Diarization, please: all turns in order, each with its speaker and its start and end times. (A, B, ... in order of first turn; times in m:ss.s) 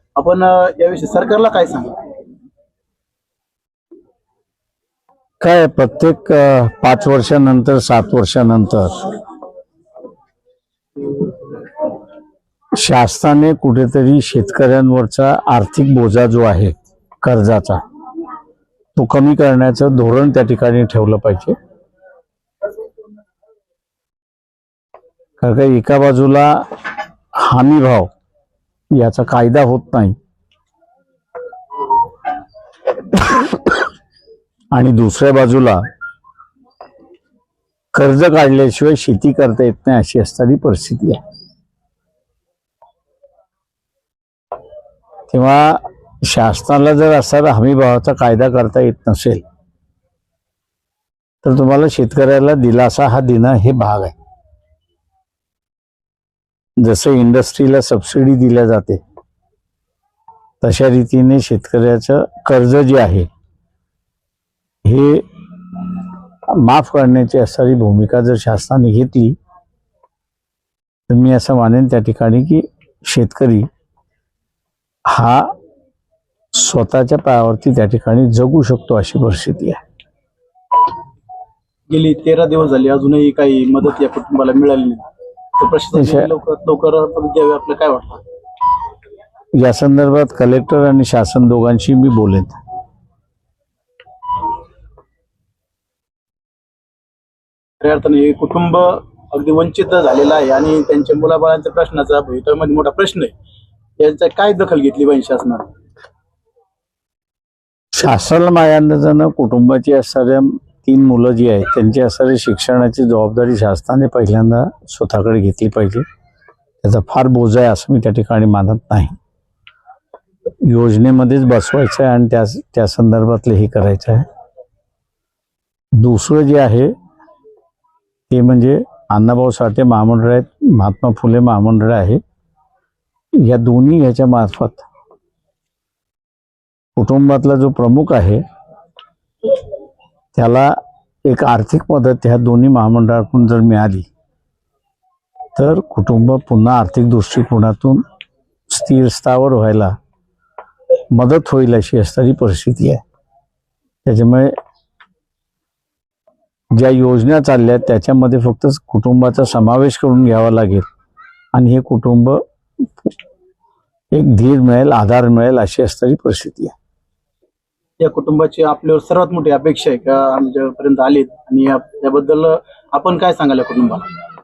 0:00.2-0:02.0 A
0:05.4-0:09.1 B
0:12.8-0:17.8 B
0:19.0-0:21.5 B
0:25.4-0:26.6 B
0:27.4-0:28.1 B
0:28.9-0:30.1 B
0:33.1-0:33.8 B
0:34.7-0:35.8 B
0:37.9-0:41.2 B
0:45.3-0:49.4 B
0:51.4-0:54.1 B
0:56.8-0:59.0 B
1:00.6-1:03.3 B
1:04.8-1:05.2 B
1:06.5-1:09.4 B
1:11.1-1:13.7 B
1:15.1-1:15.5 B
1:16.5-1:19.8 B
1:21.9-1:25.0 A
1:25.6-1:28.2 A
1:25.9-1:26.3 B
1:29.6-1:32.6 B
1:37.8-1:43.3 A
1:44.0-1:45.7 A
1:47.9-1:56.0 B
1:56.8-1:59.2 B
2:00.6-2:04.2 B
2:06.0-2:06.9 B
2:08.3-2:12.2 B
2:13.4-2:14.8 B
2:17.0-2:18.4 B
2:20.3-2:20.7 B
2:21.2-2:24.1 B
2:25.5-2:28.0 B
2:28.7-2:29.9 B
2:31.1-2:33.0 B
2:34.0-2:34.5 B
2:36.7-2:40.8 B
2:41.5-2:42.4 B
2:44.1-2:46.7 B
2:48.0-2:54.0 A